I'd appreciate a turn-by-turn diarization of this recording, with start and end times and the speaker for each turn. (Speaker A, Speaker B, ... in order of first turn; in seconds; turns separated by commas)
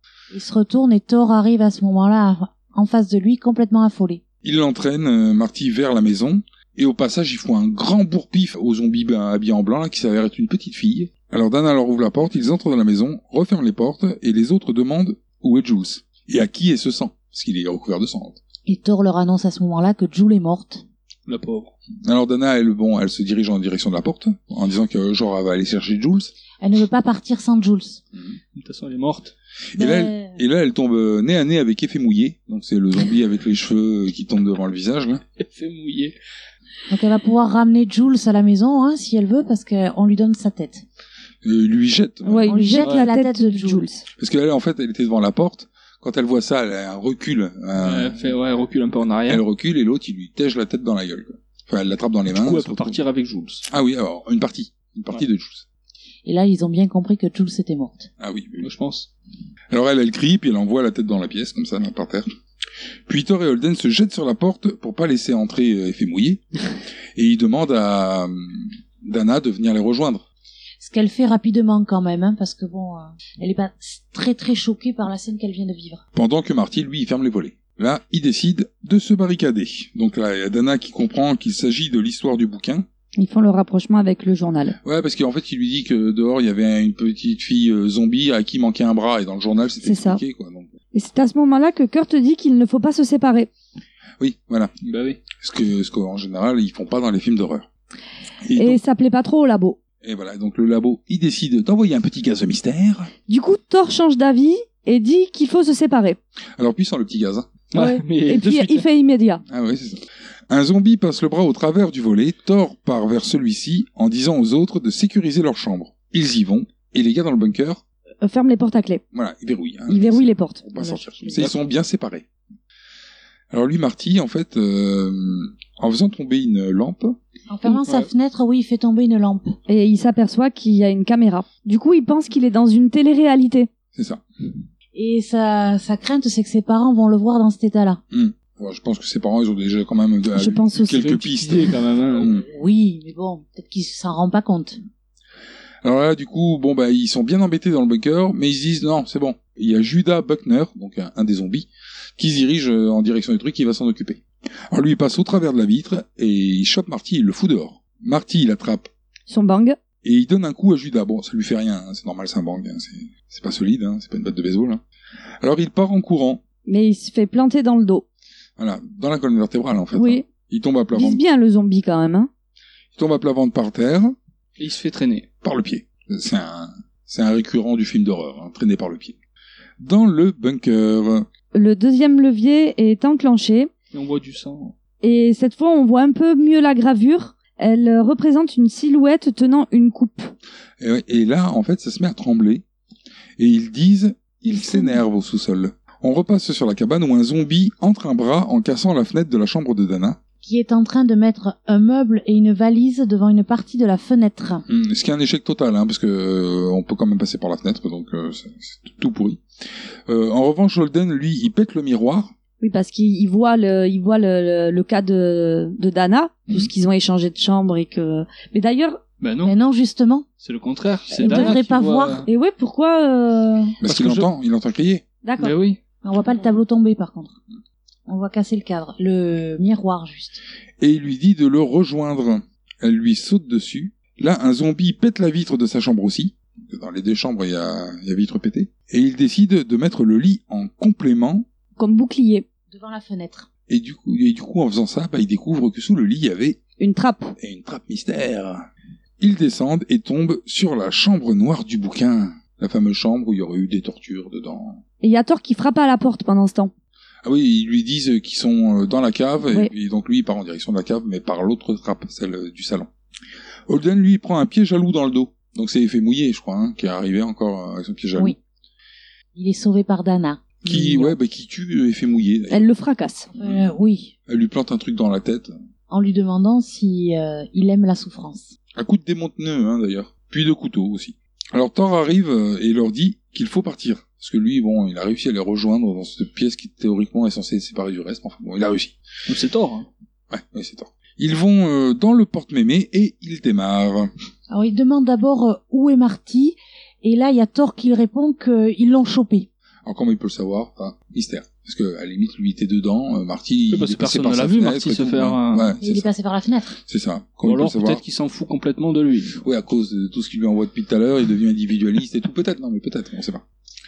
Speaker A: 0.3-4.2, Speaker B: 4.4-18.4, Speaker A: 18.7-20.8, Speaker C: 21.3-21.7, Speaker B: 22.1-26.3, Speaker A: 26.6-28.0, Speaker C: 28.6-29.3, Speaker B: 29.8-35.2, Speaker A: 29.8-30.4, Speaker C: 35.4-36.1, Speaker A: 36.9-40.8, Speaker B: 41.4-42.5, Speaker D: 42.2-44.0, Speaker A: 42.5-43.9, Speaker C: 42.8-43.1, Speaker B: 44.2-48.3, Speaker C: 47.8-49.4, Speaker B: 49.3-53.0, Speaker C: 52.3-53.6, Speaker B: 53.7-55.6, Speaker A: 56.2-58.1, Speaker B: 58.2-58.7, Speaker C: 58.6-59.1, Speaker B: 59.7-62.3, Speaker B: 63.1-66.4, Speaker B: 67.2-70.2, Speaker A: 70.8-76.0, Speaker B: 76.2-82.9, Speaker D: 83.2-84.8, Speaker B: 84.8-90.7, Speaker D: 89.8-90.2, Speaker D: 90.9-93.5, Speaker B: 94.2-94.7, Speaker C: 94.8-95.2, Speaker B: 95.4-97.7, Speaker B: 98.4-98.8, Speaker D: 98.6-99.8, Speaker B: 100.0-103.1, Speaker D: 103.3-106.2, Speaker B: 106.6-107.5, Speaker C: 107.7-108.8, Speaker D: 107.8-109.4, Speaker B: 109.5-117.8, Speaker D: 118.2-119.0, Speaker B: 119.1-122.3, Speaker D: 119.9-120.6, Speaker A: 120.8-121.4, Speaker B: 123.5-127.2, Speaker A: 127.5-129.6, Speaker D: 129.7-133.7, Speaker B: 133.9-134.2, Speaker A: 134.9-138.0, Speaker B: 138.1-142.4, Speaker D: 140.4-141.1, Speaker C: 140.9-142.3, Speaker A: 142.2-144.8, Speaker B: 145.8-158.9, Speaker D: 159.3-159.8, Speaker B: 160.0-164.8, Speaker B: 165.4-166.4, Speaker D: 166.7-168.1, Speaker B: 168.6-171.2, Speaker D: 169.9-170.3, Speaker D: 170.9-172.3, Speaker B: 172.9-174.2, Speaker C: 174.6-175.3, Speaker B: 175.4-179.2, Speaker B: 179.8-181.3, Speaker D: 181.5-183.7, Speaker C: 183.9-184.7, Speaker D: 185.0-190.3, Speaker B: 190.8-192.6, Speaker B: 193.4-200.2, Speaker A: 200.4-204.7, Speaker B: 204.7-209.4, Speaker B: 210.1-212.3, Speaker D: 212.6-219.0, Speaker C: 219.2-219.6, Speaker A: 219.4-220.3, Speaker C: 220.4-222.3, Speaker A: 221.2-222.3, Speaker D: 221.2-221.6, Speaker D: 222.3-223.8, Speaker B: 223.8-225.0, Speaker C: 223.8-224.3, Speaker D: 225.2-225.6, Speaker C: 225.4-225.8, Speaker A: 226.0-227.4, Speaker A: 228.1-230.4, Speaker B: 230.8-241.5, Speaker D: 241.8-242.4, Speaker A: 242.7-243.5, Speaker B: 243.7-246.6, Speaker D: 246.8-247.3, Speaker B: 247.4-248.7, Speaker B: 249.2-254.8, Speaker D: 255.0-256.7, Speaker B: 257.2-262.9, Speaker B: 263.7-268.4, Speaker A: 269.3-271.1, Speaker B: 270.6-272.7, Speaker D: 272.5-273.3, Speaker A: 273.3-274.1, Speaker B: 273.4-273.7, Speaker B: 274.3-275.6, Speaker A: 275.9-278.6, Speaker B: 278.8-288.9, Speaker C: 289.3-289.9, Speaker B: 290.3-294.1, Speaker A: 294.5-299.5, Speaker B: 299.9-306.1, Speaker C: 303.7-305.8, Speaker A: 305.8-306.8, Speaker B: 306.9-308.0, Speaker C: 307.4-309.4, Speaker B: 309.4-313.4